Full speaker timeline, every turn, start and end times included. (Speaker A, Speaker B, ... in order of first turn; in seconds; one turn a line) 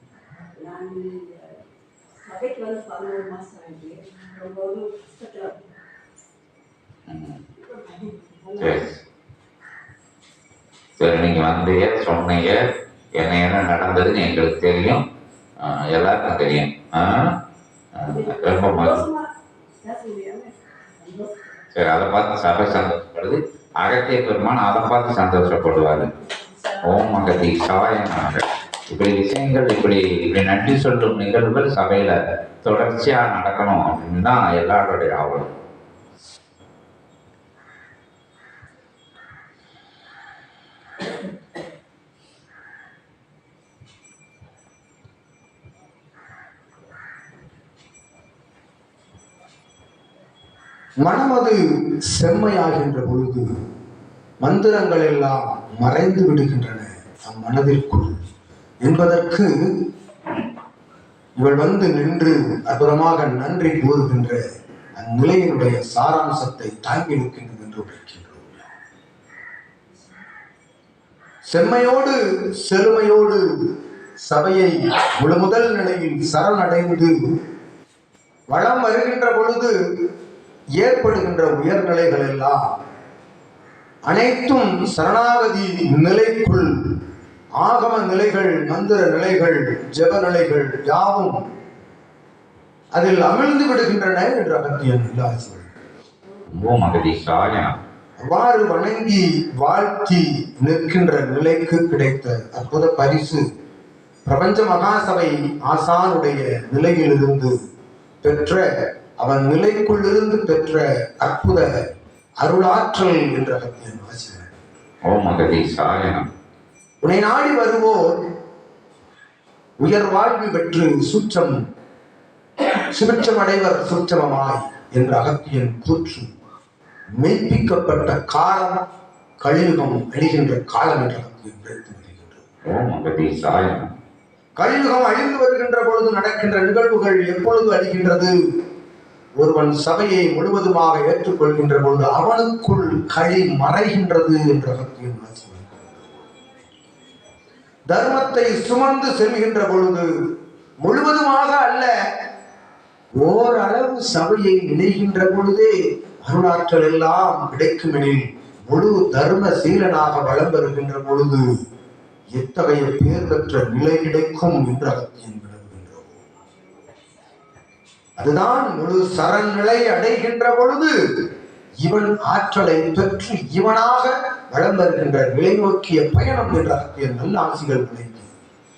Speaker A: 0.6-1.6
Speaker A: 2.2-5.7
Speaker B: 7.1-7.4
Speaker A: 7.6-8.8
Speaker B: 8.6-9.0
Speaker B: 11.0-12.6
Speaker B: 13.2-15.0
Speaker B: 15.6-17.3
Speaker B: 17.9-19.1
Speaker A: 18.0-19.3
Speaker A: 19.8-21.6
Speaker B: 21.7-26.1
Speaker B: 26.8-35.5
Speaker C: 51.0-51.6
Speaker C: 52.2-53.5
Speaker C: 54.4-58.1
Speaker C: 58.8-59.5
Speaker C: 61.4-64.4
Speaker C: 65.0-68.7
Speaker C: 71.5-73.4
Speaker C: 74.3-77.1
Speaker C: 78.5-79.7
Speaker C: 80.8-82.6
Speaker C: 84.1-86.7
Speaker C: 87.6-91.3
Speaker C: 93.0-95.7
Speaker B: 96.5-97.7
Speaker C: 98.3-103.4
Speaker C: 104.3-107.5
Speaker C: 108.2-108.6
Speaker C: 109.2-111.7
Speaker C: 112.4-114.6
Speaker B: 115.1-116.2
Speaker C: 117.0-118.2
Speaker C: 119.8-121.5
Speaker C: 122.9-126.3
Speaker C: 127.2-128.8
Speaker C: 129.4-132.4
Speaker B: 132.7-133.9
Speaker C: 134.6-138.3
Speaker C: 139.4-146.1
Speaker C: 147.9-150.1
Speaker C: 150.8-151.9
Speaker C: 153.2-161.4
Speaker C: 162.3-166.1
Speaker C: 168.2-170.9
Speaker C: 171.8-178.3